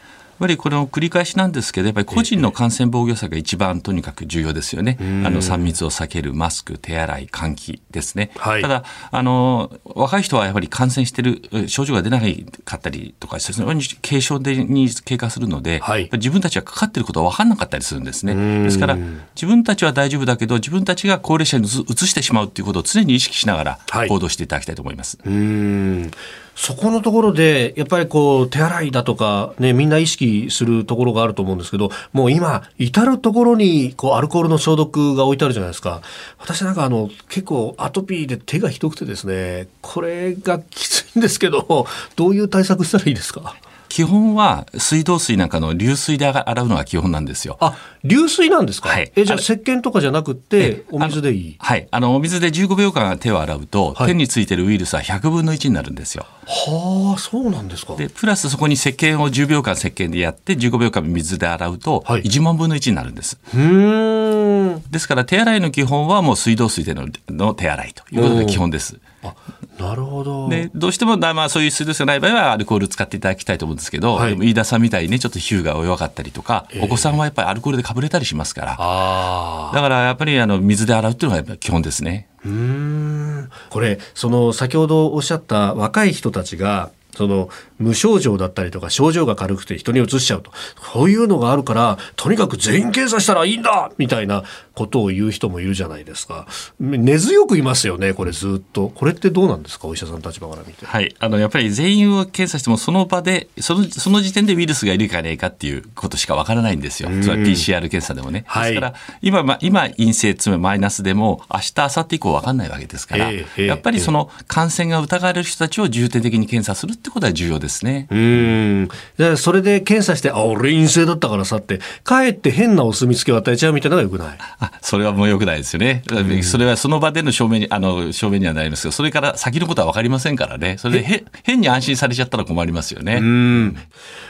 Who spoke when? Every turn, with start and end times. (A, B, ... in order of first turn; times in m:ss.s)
0:00.4-0:25.2 A
0:05.0-0:05.7 B
0:08.4-0:08.7 B
0:15.8-0:16.1 B
0:18.3-0:19.2 B
0:23.9-0:24.1 B
0:25.2-0:43.6 B
0:43.9-0:47.6 A
0:47.6-0:51.6 B
0:48.8-0:49.4 A
0:50.6-0:56.3 A
0:56.4-0:58.0 B
0:58.0-1:03.4 A
1:03.5-1:04.8 B
1:04.9-1:09.0 A
1:08.1-1:08.6 B
1:09.2-1:10.7 B
1:10.4-1:18.9 A
1:14.1-1:14.4 B
1:16.7-1:17.2 B
1:18.8-1:19.8 B
1:19.7-1:22.2 A
1:22.4-1:40.9 B
1:40.8-1:58.5 A
1:47.0-1:47.7 B
1:48.5-1:48.9 B
1:53.1-1:54.1 B
1:58.1-2:04.4 B
2:04.5-2:13.8 A
2:06.2-2:06.6 B
2:13.1-2:13.8 B